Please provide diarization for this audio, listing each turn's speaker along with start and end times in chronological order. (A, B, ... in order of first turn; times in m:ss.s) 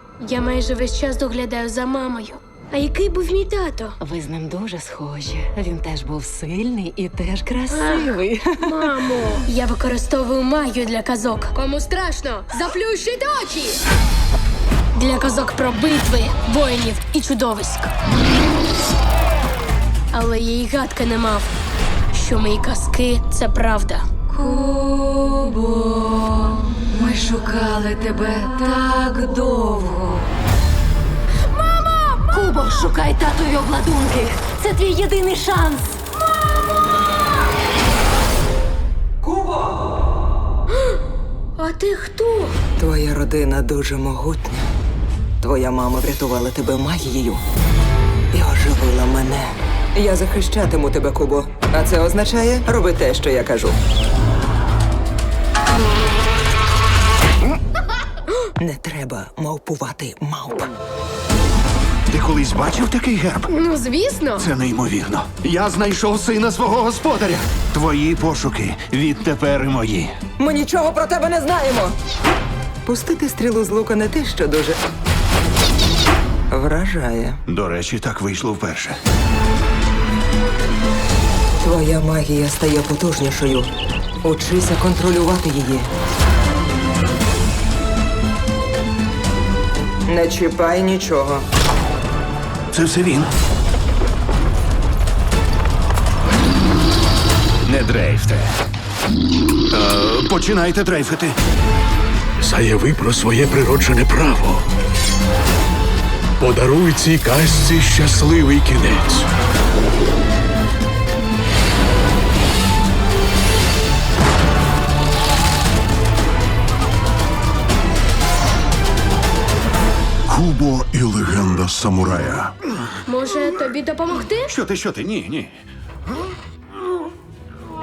0:00.2-0:04.0 A
0:04.0-0:08.8 B
0:07.7-0:13.8 A
0:14.9-0:17.9 A
0:20.1-0:21.5 A
0:22.1-0:24.1 A
0:24.3-0:30.3 B
0:31.5-0:32.4 A
0:32.3-0:36.0 B
0:39.2-0:39.6 C
0:41.6-0:42.6 A
0:42.8-0:44.6 C
0:45.4-0:47.4 C
0:48.3-0:53.8 C
0:58.6-1:00.7 C
1:02.1-1:03.5 D
1:03.5-1:04.5 A
1:04.4-1:10.1 D
1:10.4-1:11.9 C
1:12.8-1:14.8 C
1:16.5-1:17.4 C
1:17.5-1:19.0 D
1:21.6-1:23.7 C
1:24.2-1:25.9 C
1:30.1-1:31.4 C
1:32.7-1:33.3 D
1:37.6-1:38.5 D
1:39.7-1:41.4 D
1:42.4-1:44.6 E
1:46.4-1:49.3 E
2:00.3-2:02.5 D
2:03.0-2:04.5 A
2:04.5-2:05.5 D